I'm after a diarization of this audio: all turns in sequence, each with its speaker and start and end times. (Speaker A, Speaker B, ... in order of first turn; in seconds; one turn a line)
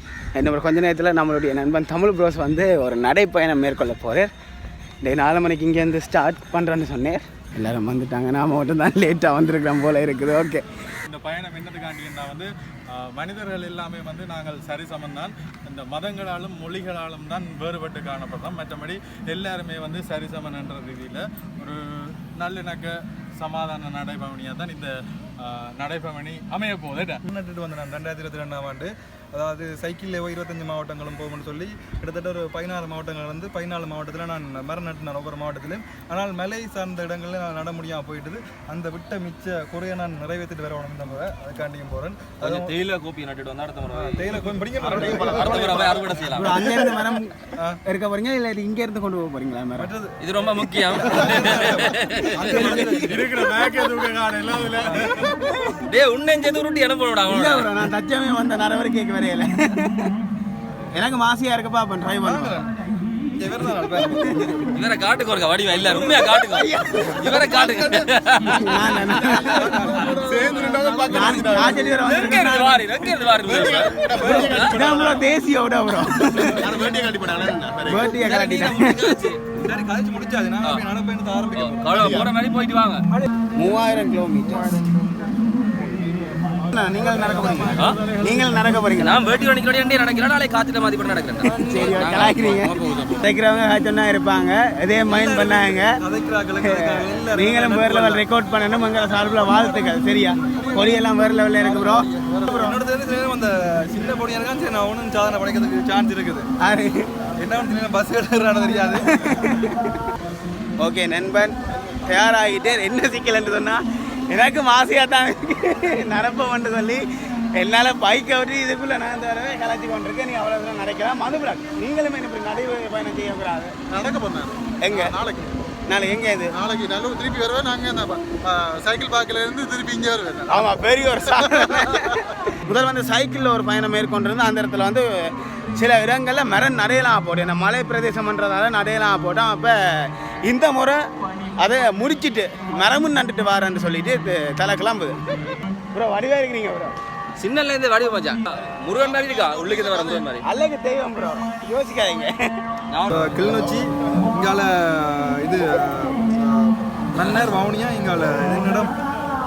Speaker A: 0.3-4.3
Speaker A: 5.0-10.6
Speaker B: 11.1-27.2
Speaker C: 27.3-42.7
Speaker D: 42.4-46.5
Speaker C: 43.9-46.8
Speaker E: 45.2-45.9
Speaker A: 46.3-49.9
Speaker C: 49.8-50.2
Speaker D: 50.2-52.7
Speaker C: 50.8-53.3
Speaker A: 52.5-53.3
Speaker B: 52.6-55.5
Speaker C: 54.8-55.3
Speaker D: 55.9-57.8
Speaker A: 57.3-60.1
Speaker A: 60.9-62.6
Speaker C: 62.2-62.7
Speaker C: 63.4-64.4
Speaker A: 64.1-64.8
Speaker D: 64.7-68.8
Speaker A: 66.2-67.3
Speaker C: 67.1-68.1
Speaker A: 68.5-70.0
Speaker C: 69.1-72.4
Speaker E: 69.5-72.0
Speaker A: 71.1-72.8
Speaker D: 72.0-74.7
Speaker C: 73.4-74.6
Speaker E: 73.5-75.2
Speaker A: 74.6-76.9
Speaker E: 76.3-78.0
Speaker A: 77.8-79.2
Speaker D: 78.1-79.4
Speaker C: 79.5-82.3
Speaker D: 81.5-83.0
Speaker A: 83.6-84.8
Speaker A: 86.7-89.4
Speaker C: 87.0-88.7
Speaker D: 89.0-93.2
Speaker A: 91.4-96.0
Speaker C: 95.1-98.2
Speaker A: 96.6-102.8
Speaker C: 100.4-101.0
Speaker C: 101.8-106.5
Speaker A: 106.6-107.1
Speaker C: 107.4-109.5
Speaker A: 109.1-109.9
Speaker A: 110.8-123.7
Speaker E: 123.9-124.5
Speaker A: 124.8-125.2
Speaker C: 125.0-125.4
Speaker A: 125.9-126.5
Speaker E: 126.6-130.5
Speaker C: 127.8-129.4
Speaker C: 130.2-130.7
Speaker A: 130.5-141.0
Speaker A: 141.6-145.2
Speaker A: 145.9-146.9
Speaker D: 147.4-150.4
Speaker A: 150.4-152.5
Speaker D: 152.9-153.3
Speaker C: 153.1-158.9
Speaker D: 157.2-157.4